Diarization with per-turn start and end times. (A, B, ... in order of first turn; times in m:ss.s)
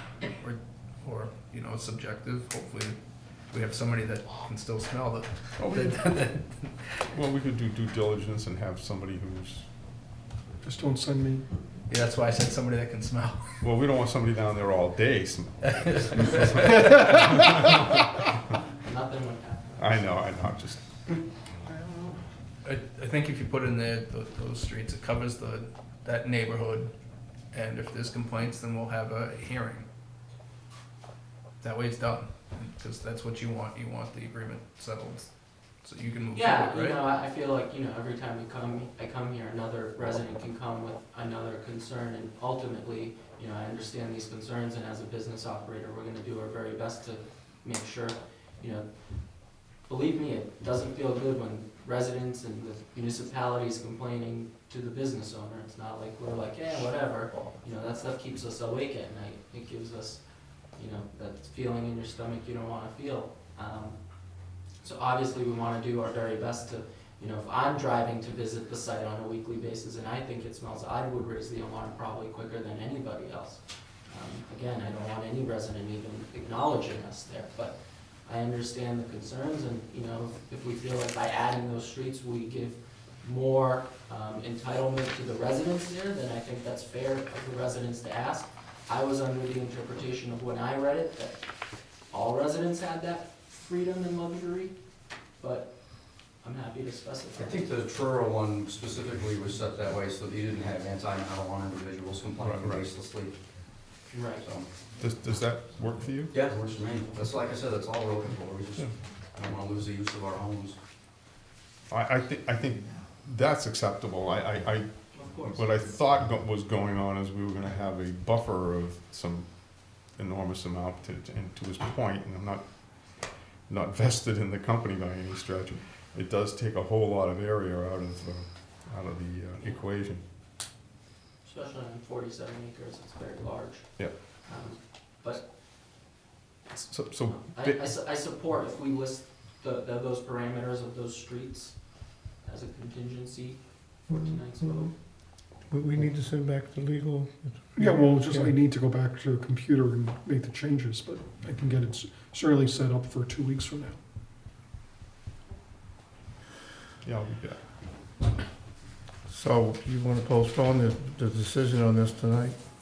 0:00.4-0:03.0 A
0:03.5-0:06.7 A
0:05.6-0:06.0 B
0:07.1-0:09.7 B
0:10.6-0:11.5 C
0:11.9-0:13.4 A
0:13.6-0:17.7 B
0:15.6-0:17.9 A
0:18.7-0:20.1 D
0:19.8-0:20.9 B
0:22.6-0:26.9 A
0:27.5-0:29.9 A
0:31.6-0:35.3 A
0:35.8-0:37.0 A
0:36.3-1:31.5 D
1:32.1-1:34.8 D
1:35.4-1:37.7 D
1:37.4-1:43.4 E
1:42.4-1:42.9 B
1:44.1-1:44.5 D
1:44.4-1:44.7 E
1:45.0-1:46.4 B
1:46.3-1:50.8 E
1:51.9-2:10.2 B
1:55.1-1:55.6 D
2:11.4-2:15.5 D
2:16.8-2:17.8 B
2:17.2-2:25.0 D
2:24.1-2:25.0 F
2:25.6-2:28.6 F
2:27.8-2:34.0 C
2:37.0-2:37.8 B
2:39.3-2:42.6 F